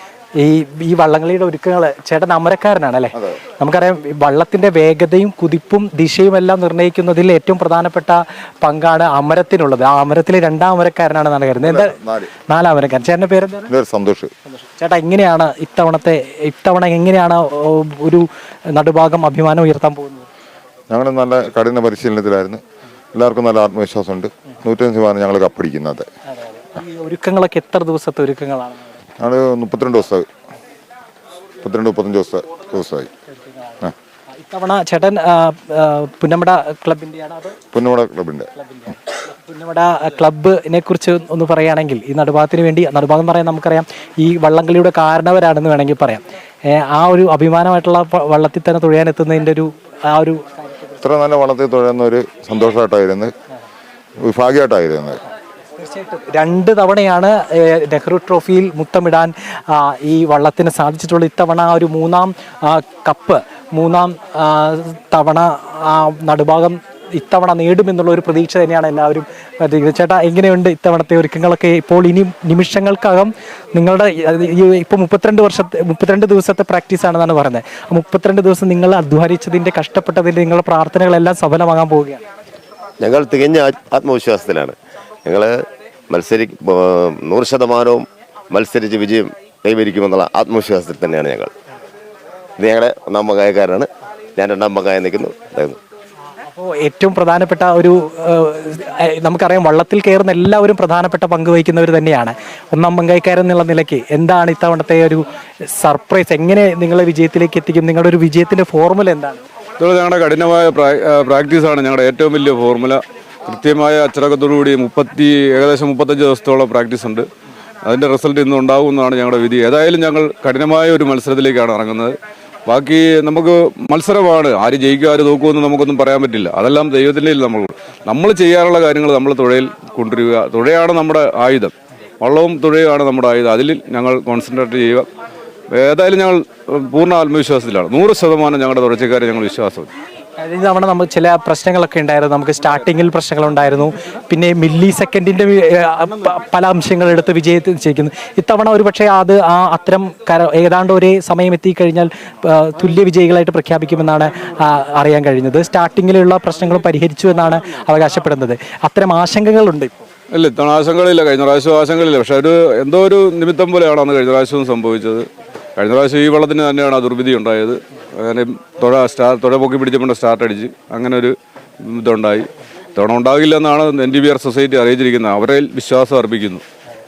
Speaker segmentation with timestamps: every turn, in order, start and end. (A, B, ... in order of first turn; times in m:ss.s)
0:00.4-0:12.0 A
0:11.6-0:12.3 B
0:12.5-0:13.7 A
0:13.7-0:14.3 B
0:14.5-0:20.3 A
0:20.9-0:22.6 B
0:23.1-0:26.1 B
0:26.3-0:28.9 A
0:29.2-0:30.3 B
0:31.6-0:33.1 B
0:33.3-0:33.8 A
0:34.4-0:37.6 A
0:37.7-0:38.5 B
0:38.6-0:50.9 A
0:51.0-0:53.3 B
0:54.2-0:55.2 B
0:55.8-1:22.2 A
1:23.0-1:31.5 C
1:32.6-1:35.8 C
1:36.5-1:45.2 A
1:45.8-1:49.4 A
1:49.8-1:57.3 D
1:57.8-2:02.2 D
2:02.7-2:15.1 D
2:15.7-2:19.9 D
2:20.4-2:39.9 A
2:40.3-2:56.6 D